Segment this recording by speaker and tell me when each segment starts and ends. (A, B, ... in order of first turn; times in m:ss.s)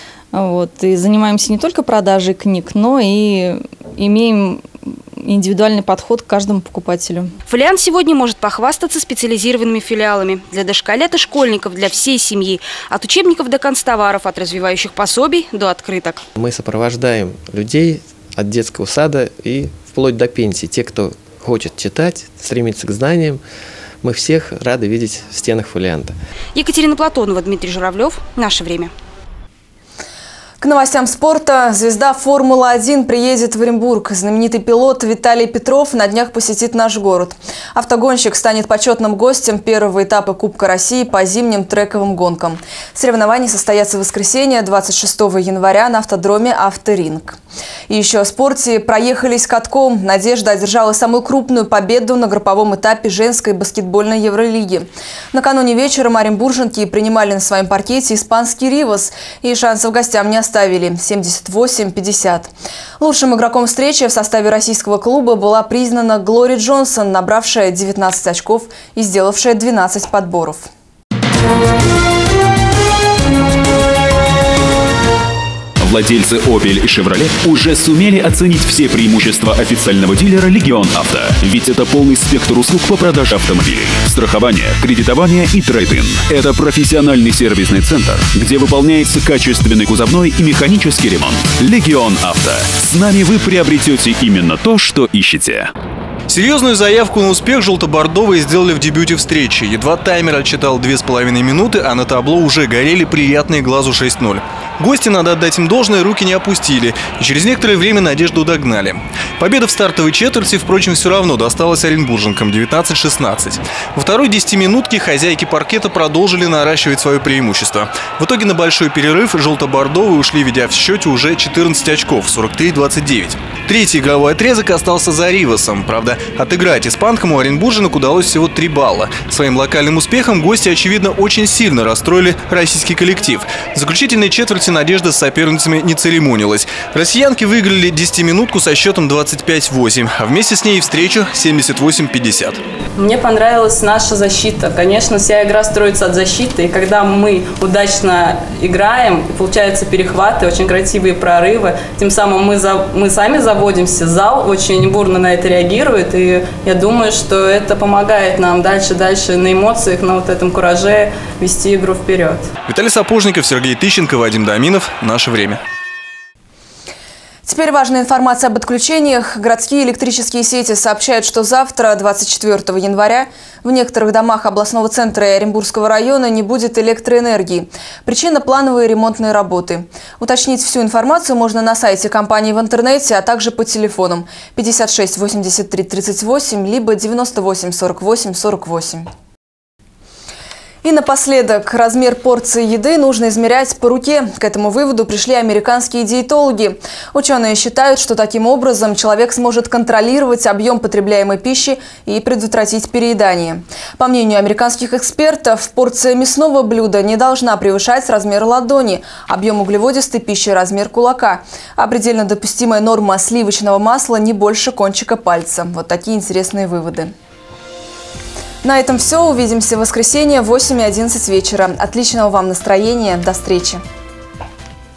0:00.3-0:07.3 A
0:07.5-0:16.2 B
0:16.4-0:23.4 C
0:24.0-0:26.2 C
0:26.6-0:28.9 B
0:30.6-0:47.4 D
0:47.9-1:10.7 D
1:15.8-1:35.7 E
1:36.3-2:22.6 F
2:23.0-2:42.5 G
2:42.7-2:45.6 F
2:47.5-3:09.0 D
3:10.8-3:37.1 D
3:38.6-3:43.8 D